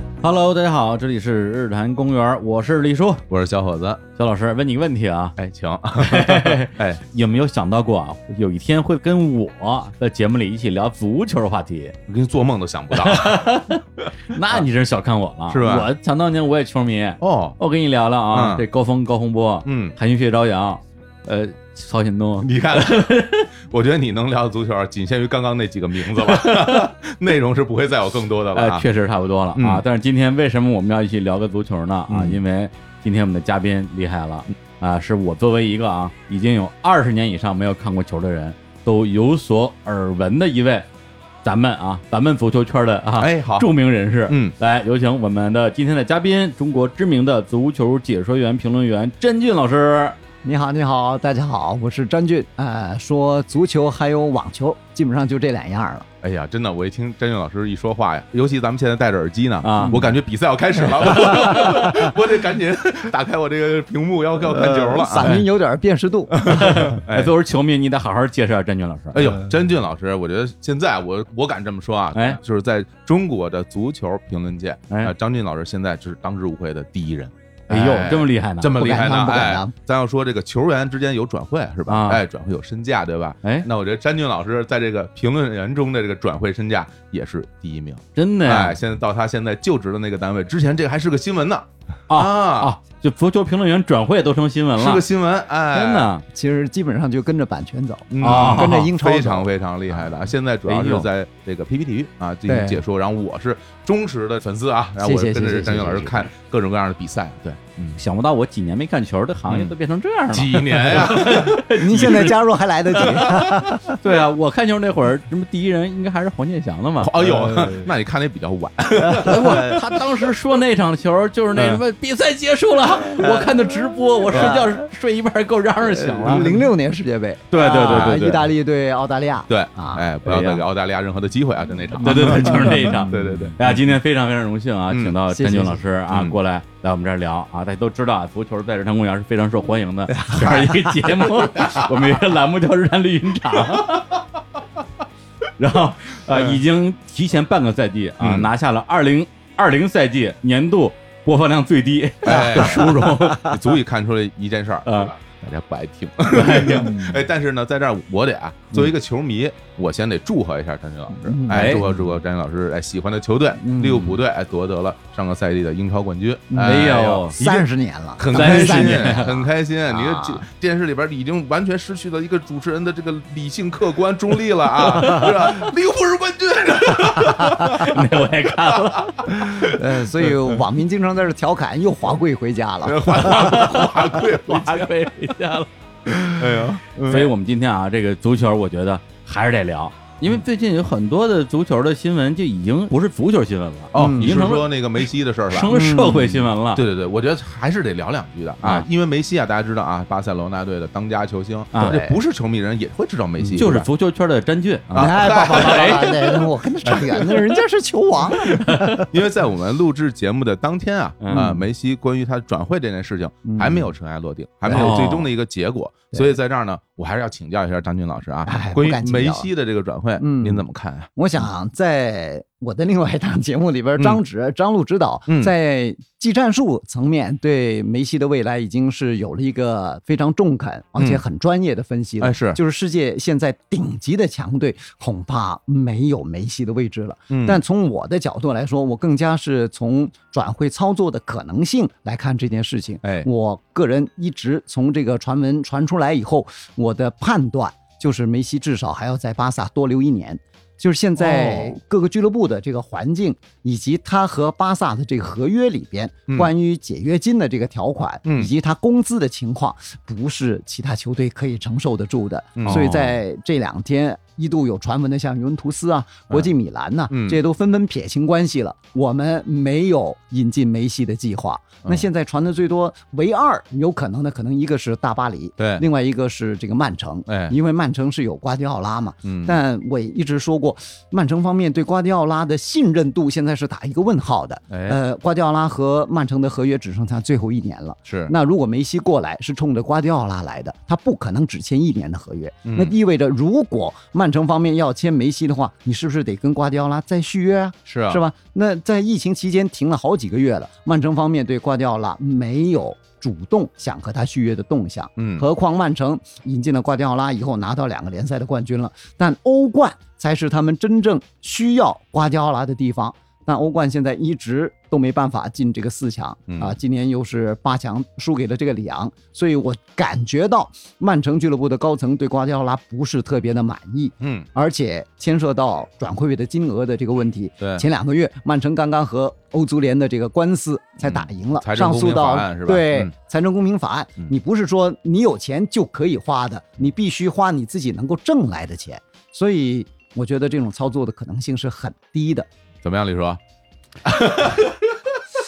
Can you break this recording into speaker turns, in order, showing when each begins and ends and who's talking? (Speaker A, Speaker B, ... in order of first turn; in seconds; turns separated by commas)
Speaker A: 0.2-3.2, Speaker B: 3.3-4.1, Speaker A: 4.2-5.4, Speaker B: 5.4-7.0, Speaker A: 6.0-12.0, Speaker B: 12.1-14.7, Speaker A: 12.9-23.5, Speaker B: 15.5-15.9, Speaker B: 17.2-17.6, Speaker B: 18.3-18.6, Speaker B: 19.6-20.0, Speaker B: 22.4-28.9, Speaker A: 26.1-26.9, Speaker A: 28.5-40.9, Speaker B: 29.6-29.9, Speaker B: 32.1-32.4, Speaker A: 41.4-50.2, Speaker B: 43.2-43.7, Speaker B: 44.3-44.5, Speaker C: 50.5-56.1, Speaker B: 56.2-65.4, Speaker A: 59.6-60.1, Speaker C: 59.8-60.1, Speaker A: 61.2-61.9, Speaker C: 64.5-66.9, Speaker B: 66.4-67.3, Speaker A: 66.5-69.3, Speaker B: 69.1-92.7, Speaker A: 72.1-72.4, Speaker A: 77.7-78.8, Speaker C: 78.8-79.7, Speaker A: 81.9-82.2, Speaker A: 88.2-88.8, Speaker A: 92.1-95.0, Speaker B: 94.8-96.1, Speaker A: 95.7-96.2, Speaker C: 96.3-99.5, Speaker B: 98.1-108.0, Speaker A: 98.2-98.9, Speaker A: 100.7-101.1, Speaker C: 102.5-102.8, Speaker C: 105.0-106.3, Speaker A: 108.0-112.4, Speaker B: 109.5-109.8, Speaker B: 110.3-112.1, Speaker C: 111.8-114.0, Speaker A: 113.0-117.2, Speaker B: 117.0-120.0, Speaker A: 119.2-126.6, Speaker B: 121.5-121.8, Speaker C: 123.2-123.5, Speaker B: 124.3-124.6, Speaker C: 124.3-124.7, Speaker C: 125.9-130.6, Speaker B: 126.2-126.7, Speaker A: 127.5-128.5, Speaker B: 127.6-128.3, Speaker B: 129.5-133.9, Speaker A: 132.0-144.2, Speaker C: 132.0-133.5, Speaker B: 134.9-135.2, Speaker C: 135.3-135.8, Speaker B: 136.1-136.4, Speaker C: 140.1-141.0, Speaker B: 141.6-141.8, Speaker A: 145.6-153.7, Speaker B: 146.3-146.6, Speaker B: 148.2-148.5, Speaker B: 152.2-167.6, Speaker C: 152.3-153.5, Speaker A: 154.9-155.1, Speaker A: 156.3-157.2, Speaker C: 161.1-161.9, Speaker A: 161.5-161.9, Speaker C: 163.6-164.2, Speaker C: 166.5-170.4, Speaker A: 166.6-167.5, Speaker B: 168.2-178.1, Speaker A: 168.3-169.3, Speaker A: 175.2-175.5, Speaker A: 177.0-179.8, Speaker B: 178.7-179.1, Speaker C: 179.6-183.6, Speaker B: 182.8-184.9, Speaker A: 183.2-185.7, Speaker B: 186.3-187.3, Speaker A: 187.1-194.8, Speaker B: 193.9-195.7, Speaker C: 194.0-194.3, Speaker A: 195.5-196.8, Speaker C: 195.7-196.4, Speaker B: 196.7-203.9, Speaker A: 198.6-198.9, Speaker A: 201.7-202.0, Speaker C: 201.8-202.2, Speaker A: 203.6-206.4, Speaker B: 204.9-207.4, Speaker C: 205.0-209.1, Speaker A: 208.7-209.0, Speaker B: 209.0-221.1, Speaker A: 211.2-211.4, Speaker C: 211.3-211.6, Speaker C: 213.4-213.9, Speaker C: 214.7-215.0, Speaker A: 214.7-215.3, Speaker C: 218.5-219.5, Speaker C: 220.2-220.6, Speaker C: 221.2-342.5, Speaker B: 225.3-225.5, Speaker B: 231.0-231.2, Speaker B: 232.2-232.6, Speaker B: 237.3-237.6, Speaker B: 243.0-243.3, Speaker B: 251.2-251.8, Speaker B: 258.2-258.5, Speaker B: 262.6-262.9, Speaker A: 262.7-263.2, Speaker B: 267.1-267.4, Speaker B: 275.6-275.8, Speaker B: 277.3-277.6, Speaker B: 279.2-279.6, Speaker B: 284.7-285.0, Speaker B: 288.1-288.3, Speaker B: 292.6-292.9, Speaker B: 297.9-298.2, Speaker B: 305.2-305.4, Speaker B: 316.5-316.8, Speaker B: 324.2-324.5, Speaker B: 331.0-333.1, Speaker B: 342.8-343.4, Speaker B: 344.0-345.0